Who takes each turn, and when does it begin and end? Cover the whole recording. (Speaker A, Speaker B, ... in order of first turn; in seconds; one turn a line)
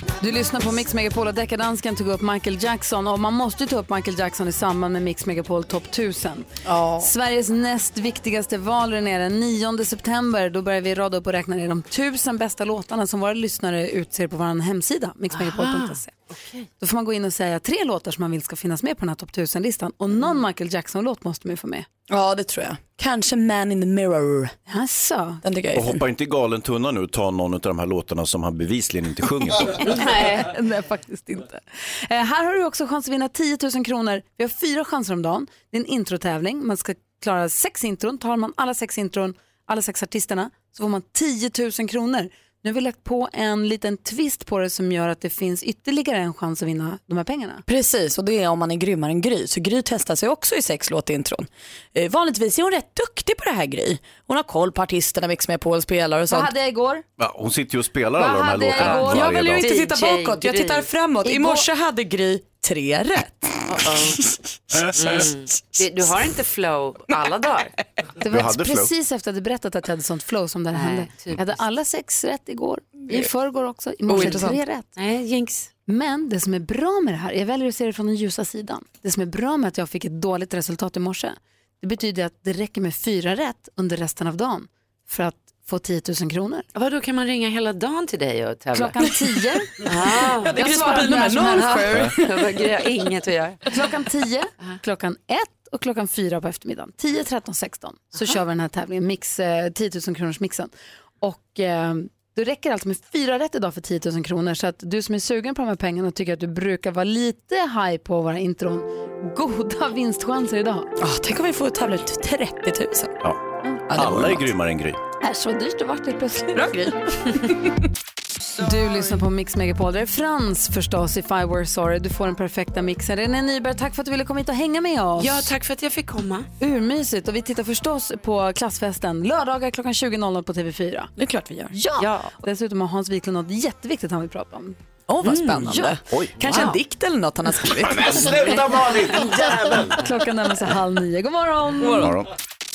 Speaker A: 0.2-6.5
Speaker B: 6.7-7.1
Speaker A: 7.0-16.1
Speaker C: 15.3-16.7
Speaker A: 16.8-21.9
Speaker B: 22.1-24.6
Speaker A: 24.7-25.4
Speaker B: 25.4-26.0
Speaker D: 25.7-29.8
Speaker A: 29.8-47.6
Speaker C: 29.9-30.5
Speaker B: 47.7-56.5
Speaker A: 56.3-57.0
Speaker D: 57.2-59.7
Speaker A: 58.2-59.5
Speaker B: 58.9-64.8
Speaker C: 59.6-60.9
Speaker A: 61.2-61.7
Speaker C: 63.7-64.2
Speaker D: 64.7-65.2
Speaker C: 65.0-67.7
Speaker A: 68.2-74.9
Speaker D: 68.3-68.9
Speaker C: 70.7-71.6
Speaker B: 74.1-74.6
Speaker C: 74.2-74.4
Speaker C: 75.0-75.7
Speaker A: 75.9-86.7
Speaker C: 86.7-89.0
Speaker A: 88.7-92.2
Speaker C: 89.8-90.8
Speaker B: 90.1-92.8
Speaker C: 92.1-93.7
Speaker A: 93.7-100.7
Speaker A: 101.2-110.9
Speaker B: 111.0-113.2
Speaker B: 113.9-114.5
Speaker D: 113.9-115.0
Speaker A: 115.2-116.9
Speaker B: 116.6-117.7
Speaker A: 118.6-125.5
Speaker C: 125.2-126.5
Speaker A: 126.6-131.1
Speaker B: 131.2-131.7
Speaker A: 131.7-135.9
Speaker C: 132.0-132.3
Speaker B: 135.1-138.3
Speaker C: 136.4-136.8
Speaker D: 137.9-140.0
Speaker A: 139.1-142.1
Speaker B: 141.8-142.1
Speaker D: 142.0-142.3